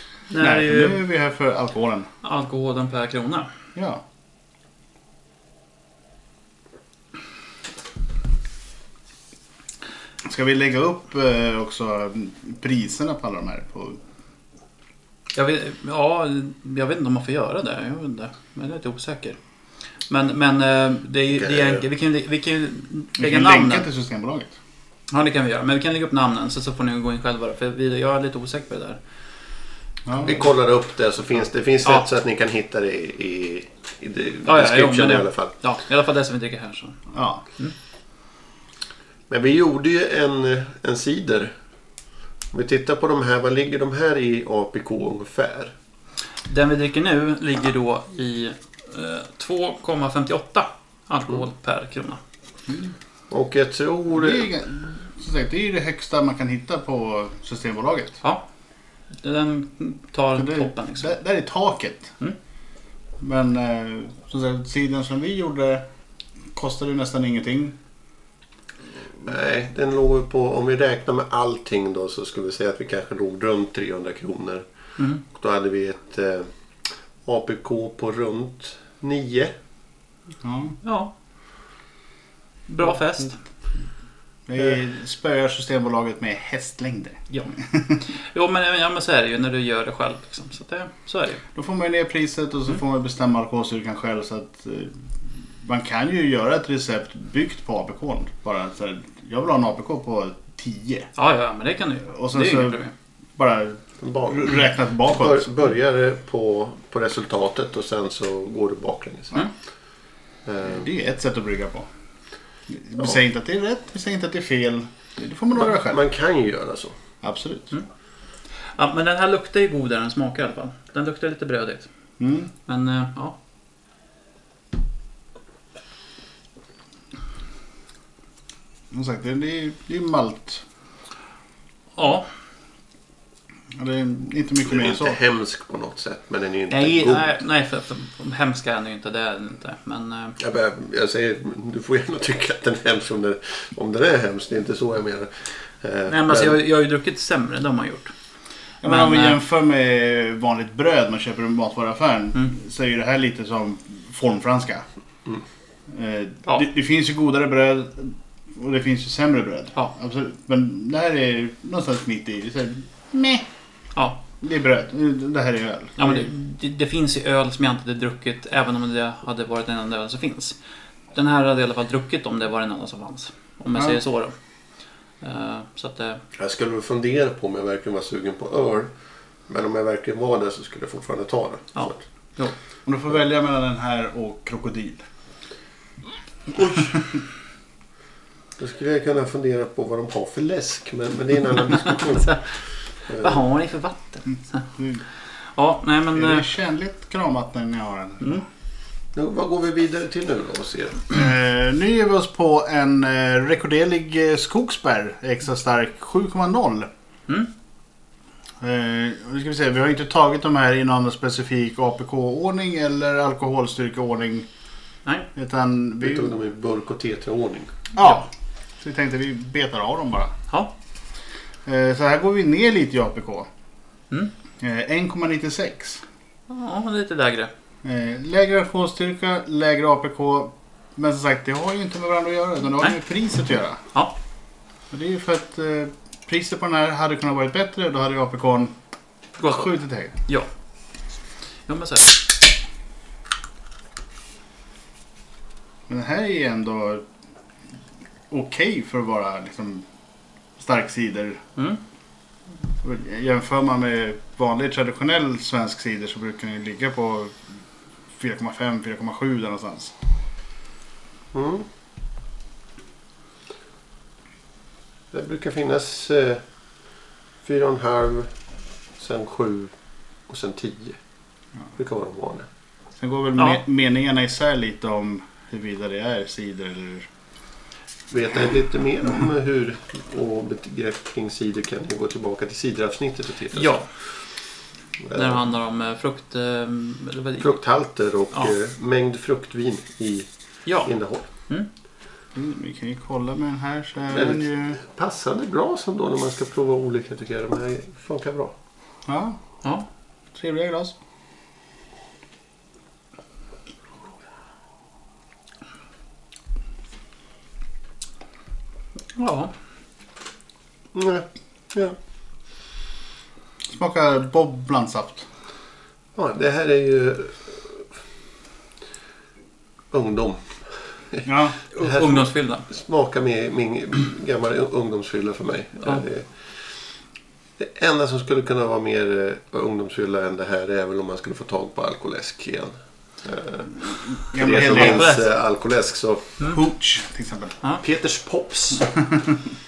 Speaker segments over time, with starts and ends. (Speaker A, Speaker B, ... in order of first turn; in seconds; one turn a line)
Speaker A: 0.3-1.0
Speaker B: 0.4-2.1
Speaker A: 2.2-3.5
Speaker B: 3.8-4.0
Speaker B: 10.2-14.0
Speaker A: 15.3-19.4
Speaker A: 20.1-23.9
Speaker C: 21.4-21.8
Speaker B: 23.2-24.5
Speaker A: 25.1-29.0
Speaker B: 30.1-30.4
Speaker C: 30.2-35.5
Speaker A: 34.5-37.0
Speaker B: 37.1-37.4
Speaker C: 39.3-41.5
Speaker C: 42.5-45.7
Speaker A: 46.5-52.2
Speaker C: 53.3-54.5
Speaker B: 54.1-58.2
Speaker A: 59.2-61.1
Speaker B: 60.4-62.1
Speaker B: 63.2-65.8
Speaker B: 66.5-67.8
Speaker C: 69.2-74.7
Speaker C: 75.2-76.5
Speaker C: 77.2-79.5
Speaker B: 80.4-80.8
Speaker A: 80.8-81.1
Speaker A: 82.7-83.4
Speaker B: 84.5-88.0
Speaker A: 88.1-91.4
Speaker B: 91.5-95.0
Speaker B: 95.6-101.1
Speaker A: 101.2-102.9
Speaker B: 102.1-102.8
Speaker B: 103.4-105.5
Speaker C: 104.0-109.4
Speaker C: 110.5-110.9
Speaker B: 110.6-111.9
Speaker B: 112.7-116.0
Speaker C: 115.6-117.0
Speaker B: 117.2-117.8
Speaker A: 118.8-121.9
Speaker B: 122.2-122.5
Speaker A: 122.7-123.4
Speaker B: 128.9-130.6
Speaker A: 132.0-132.3
Speaker B: 133.8-135.2
Speaker C: 134.7-137.4
Speaker A: 136.7-140.4
Speaker C: 140.4-146.6
Speaker A: 146.1-148.1
Speaker B: 148.8-154.8
Speaker A: 148.8-149.4
Speaker B: 155.9-163.5
Speaker A: 163.9-164.2
Speaker B: 164.4-166.2
Speaker A: 166.0-170.6
Speaker A: 171.1-174.3
Speaker A: 175.2-176.2
Speaker C: 176.4-178.9
Speaker C: 179.5-182.0
Speaker A: 181.8-182.6
Speaker B: 182.9-185.0
Speaker C: 188.6-192.4
Speaker C: 193.1-193.4
Speaker A: 193.2-194.7
Speaker A: 195.3-196.5
Speaker B: 196.2-198.4
Speaker C: 199.2-201.1
Speaker B: 201.1-206.9
Speaker B: 208.6-214.5
Speaker B: 215.3-216.3
Speaker C: 216.0-217.8
Speaker B: 218.0-218.3
Speaker B: 218.8-220.3
Speaker B: 221.7-223.5
Speaker B: 224.6-226.0
Speaker A: 226.5-227.5
Speaker B: 227.8-233.8
Speaker B: 234.9-238.7
Speaker A: 239.4-239.7
Speaker B: 239.5-240.1
Speaker A: 241.7-242.2
Speaker B: 245.9-247.0
Speaker B: 248.3-249.9
Speaker B: 250.6-251.4
Speaker B: 252.8-257.3
Speaker B: 258.2-259.9
Speaker C: 261.3-261.7
Speaker C: 265.1-266.4
Speaker C: 267.4-268.3
Speaker C: 269.0-269.7
Speaker C: 270.3-271.0
Speaker C: 271.8-272.5
Speaker B: 273.0-277.1
Speaker C: 278.1-283.8
Speaker A: 283.5-283.9
Speaker C: 285.0-285.4
Speaker A: 285.1-287.5
Speaker C: 287.4-290.3
Speaker A: 290.7-290.9
Speaker C: 290.8-291.3
Speaker B: 292.4-294.8
Speaker C: 294.1-298.5
Speaker B: 299.1-299.4
Speaker B: 300.3-300.9
Speaker A: 309.2-309.5
Speaker C: 310.9-312.0
Speaker B: 313.7-315.3
Speaker C: 316.1-317.8
Speaker C: 319.9-320.4
Speaker B: 321.2-321.6
Speaker A: 321.7-322.7
Speaker C: 321.8-326.6
Speaker C: 327.6-336.4
Speaker B: 334.3-335.2
Speaker A: 334.7-335.2
Speaker B: 336.5-337.5
Speaker C: 337.8-338.9